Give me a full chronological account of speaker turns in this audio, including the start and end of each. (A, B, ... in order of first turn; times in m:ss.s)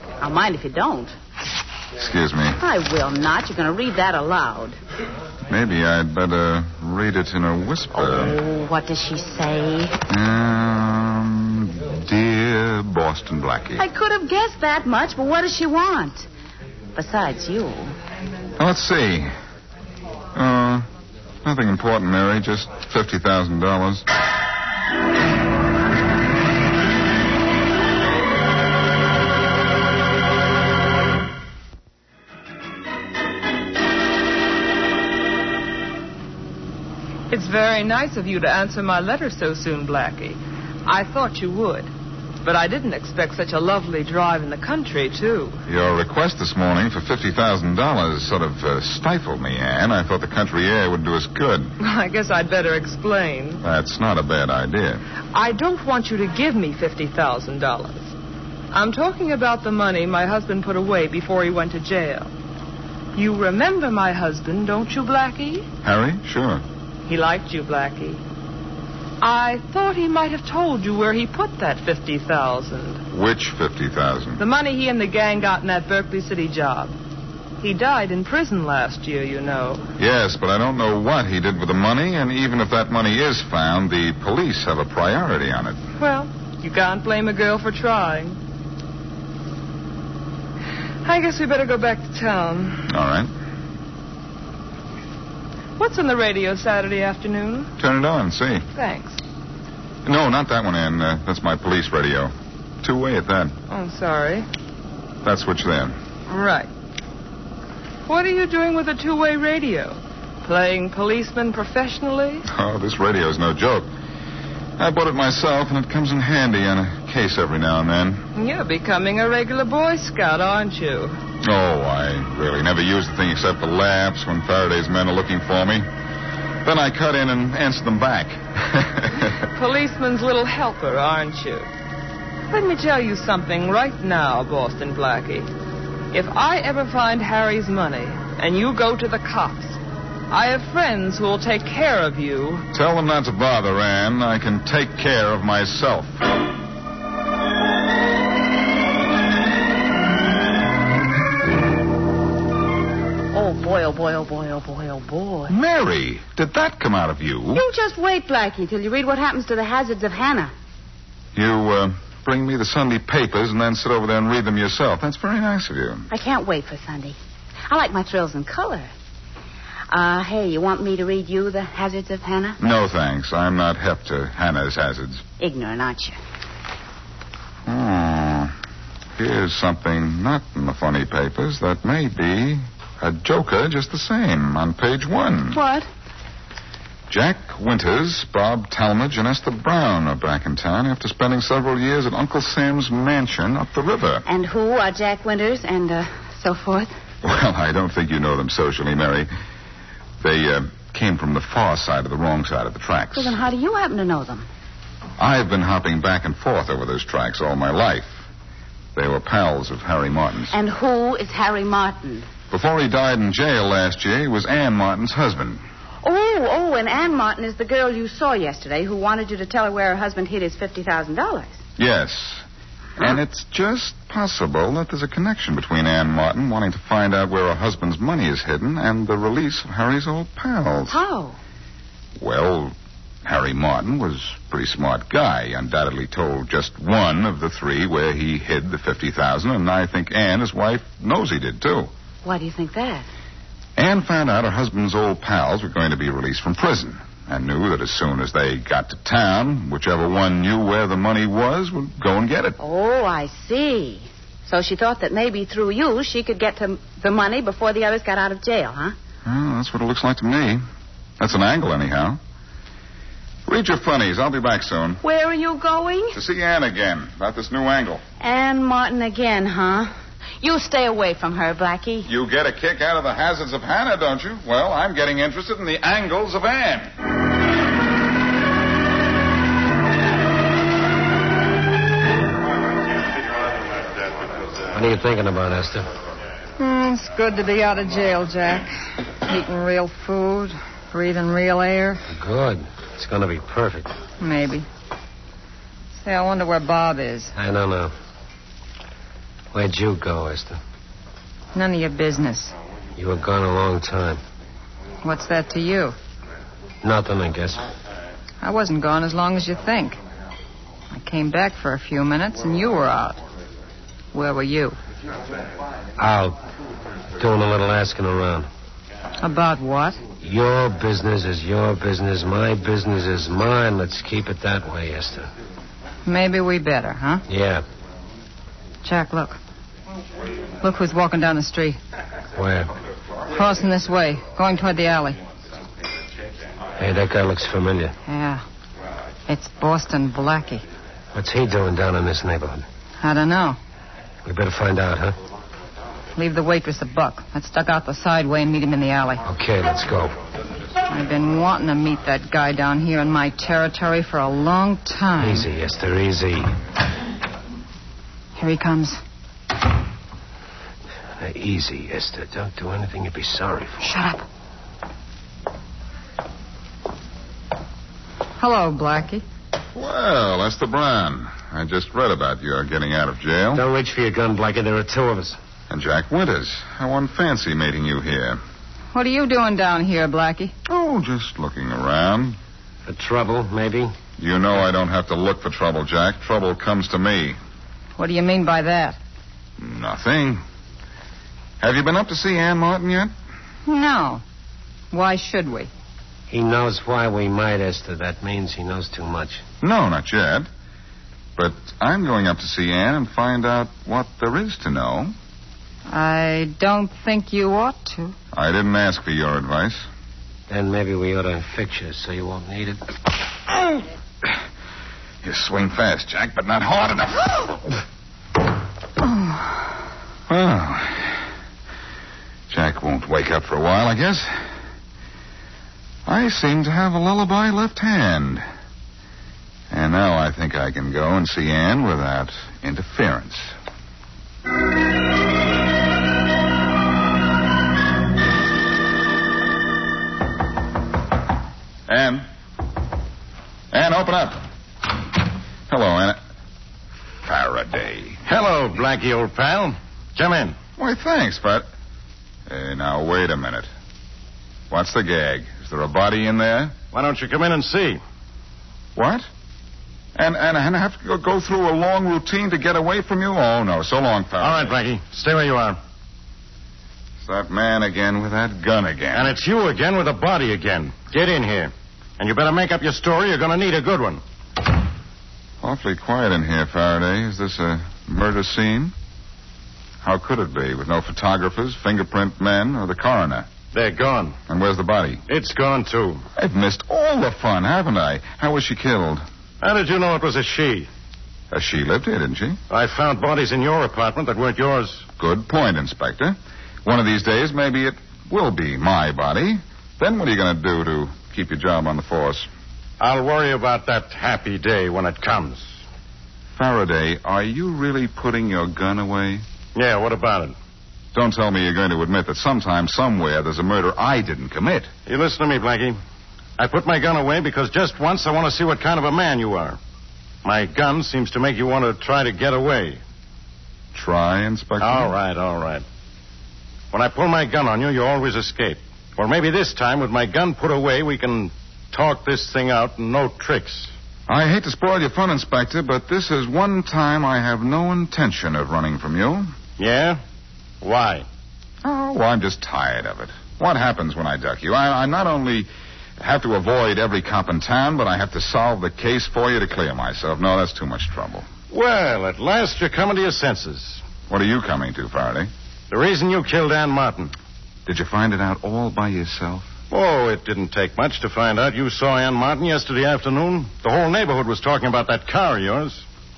0:00.2-0:01.1 A
0:02.0-0:02.6 B
0:02.6-0:04.8 A
0:05.5-0:08.4 B
0:07.9-0:10.0 A
0:10.1-0:13.8 B
0:13.8-0:16.3 A
0:16.9-0:17.9 A
0:18.6-0:19.3 B
0:20.3-0:20.9 B
0:21.4-0:24.0 B
0:37.3-0:41.9 C
0:42.4-0:45.6 C
0:45.7-0:51.7 B
0:51.8-0:53.6 C
0:53.6-0:55.0 B
0:55.3-0:58.1 C
0:58.7-1:02.3 C
1:03.1-1:05.7 C
1:05.8-1:06.6 B
1:07.0-1:08.2 C
1:09.2-1:13.0 C
1:13.1-1:14.4 B
1:14.4-1:16.9 C
1:17.6-1:19.9 C
1:20.0-1:25.8 B
1:26.0-1:28.4 C
1:31.0-1:32.8 C
1:32.9-1:33.3 B
1:35.8-1:37.7 C
1:37.8-1:38.6 B
1:38.7-1:39.2 C
1:40.0-1:43.6 B
1:43.7-1:44.5 C
1:45.2-1:46.0 B
1:46.3-1:46.7 C
1:48.1-1:52.4 C
1:52.4-1:53.9 B
1:54.8-1:58.2 B
1:58.3-2:01.2 C
2:01.4-2:05.9 B
2:06.6-2:09.3 B
2:09.5-2:11.7 C
2:12.5-2:15.5 C
2:16.1-2:22.6 C
2:22.7-2:26.2 B
2:33.3-2:35.5 A
2:35.5-2:37.6 B
2:37.5-2:40.5 A
2:41.3-2:46.1 B
2:46.1-2:47.2 A
2:47.7-2:48.9 A
2:49.9-2:52.6 A
2:52.6-2:55.2 B
2:55.4-2:56.2 A
2:57.6-2:58.5 B
2:59.2-3:05.6 B
3:05.5-3:05.9 A
3:07.1-3:14.2 B
3:14.2-3:16.9 A
3:17.2-3:19.3 B
3:20.2-3:23.4 B
3:23.1-3:24.5 A
3:25.2-3:28.2 B
3:28.9-3:30.5 B
3:30.5-3:32.3 A
3:32.5-3:35.6 B
3:36.0-3:41.6 A
3:41.8-3:42.4 B
3:43.0-3:51.0 B
3:50.9-3:51.4 A
3:52.2-4:01.9 B
4:02.2-4:03.1 A
4:03.8-4:12.6 B
4:12.6-4:19.0 A
4:19.2-4:20.6 B
4:21.2-4:22.2 B
4:23.4-4:25.0 B
4:25.0-4:26.2 A
4:26.1-4:28.0 B
4:28.2-4:32.1 A
4:32.0-4:36.9 B
4:44.7-4:45.9 D
4:46.6-4:52.0 E
4:52.1-4:54.0 D
4:54.2-4:54.6 E
4:56.0-4:57.3 E
4:57.4-4:57.9 D
4:59.5-5:00.6 D
5:01.5-5:02.5 E
5:03.0-5:04.2 D
5:05.0-5:05.9 E
5:06.8-5:07.7 D
5:08.4-5:10.0 E
5:10.9-5:13.2 E
5:14.1-5:14.8 E
5:16.0-5:16.4 D
5:17.2-5:18.5 D
5:19.2-5:20.0 E
5:20.2-5:25.3 D
5:26.0-5:27.2 E
5:27.3-5:27.6 D
5:28.8-5:29.4 E
5:30.6-5:31.8 E
5:32.4-5:32.7 D
5:33.3-5:35.2 E
5:36.8-5:37.9 D
5:38.1-5:38.4 E
5:39.3-5:40.6 E
5:41.1-5:42.6 D
5:43.0-5:43.6 E
5:44.2-5:45.2 D
5:46.1-5:49.2 E
5:49.2-5:50.1 D
5:50.9-5:55.5 E
5:55.2-5:56.5 D
5:58.4-5:59.0 E
6:01.2-6:03.8 D
6:03.8-6:04.2 E
6:08.4-6:09.2 E
6:09.7-6:13.6 B
6:13.5-6:15.4 D
6:15.7-6:18.4 B
6:18.9-6:20.5 E
6:20.6-6:22.4 B
6:22.9-6:23.9 D
6:24.2-6:27.4 B
6:28.0-6:29.0 E
6:29.6-6:30.4 B
6:31.6-6:33.1 B
6:33.6-6:34.2 E
6:34.9-6:35.7 E
6:36.3-6:39.4 D
6:39.6-6:40.5 B
6:41.4-6:45.1 B
6:45.9-6:48.2 E
6:48.3-6:49.9 B
6:50.5-6:52.8 D
6:55.2-6:57.6 B
6:59.0-6:59.6 E
7:00.3-7:01.2 B
7:02.5-7:04.5 B
7:06.0-7:08.4 B
7:09.7-7:13.5 B
7:21.9-7:22.3 B
7:23.7-7:24.4 B
7:25.7-7:26.2 B
7:27.2-7:28.2 B
7:28.2-7:30.6 F
7:30.8-7:31.7 B
7:32.5-7:33.7 B
7:34.7-7:36.8 B
7:36.9-7:38.0 F
7:38.9-7:39.3 B
7:40.2-7:44.8 B
7:44.4-7:45.8 F
7:47.2-7:49.3 B
7:49.1-7:54.2 F
7:55.6-7:58.9 B
8:00.0-8:03.5 B
8:03.7-8:04.4 F
8:04.5-8:05.2 B
8:05.3-8:06.2 F
8:06.4-8:09.2 B
8:09.6-8:10.9 F
8:11.5-8:12.6 B
8:12.7-8:15.0 F
8:15.2-8:22.5 B
8:23.0-8:25.7 F
8:26.5-8:29.4 B
8:29.7-8:30.6 F
8:31.1-8:34.9 B
8:35.0-8:36.0 F
8:36.6-8:39.8 F
8:40.4-8:43.0 F
8:43.9-8:45.1 B
8:44.8-8:45.8 F
8:46.9-8:53.9 F
8:54.3-8:59.5 B
8:59.8-9:00.2 F
9:00.8-9:01.2 F
9:01.8-9:11.5 B
9:11.7-9:14.0 F
9:14.3-9:15.5 B
9:15.9-9:17.3 F
9:17.8-9:19.7 B
9:19.9-9:26.0 F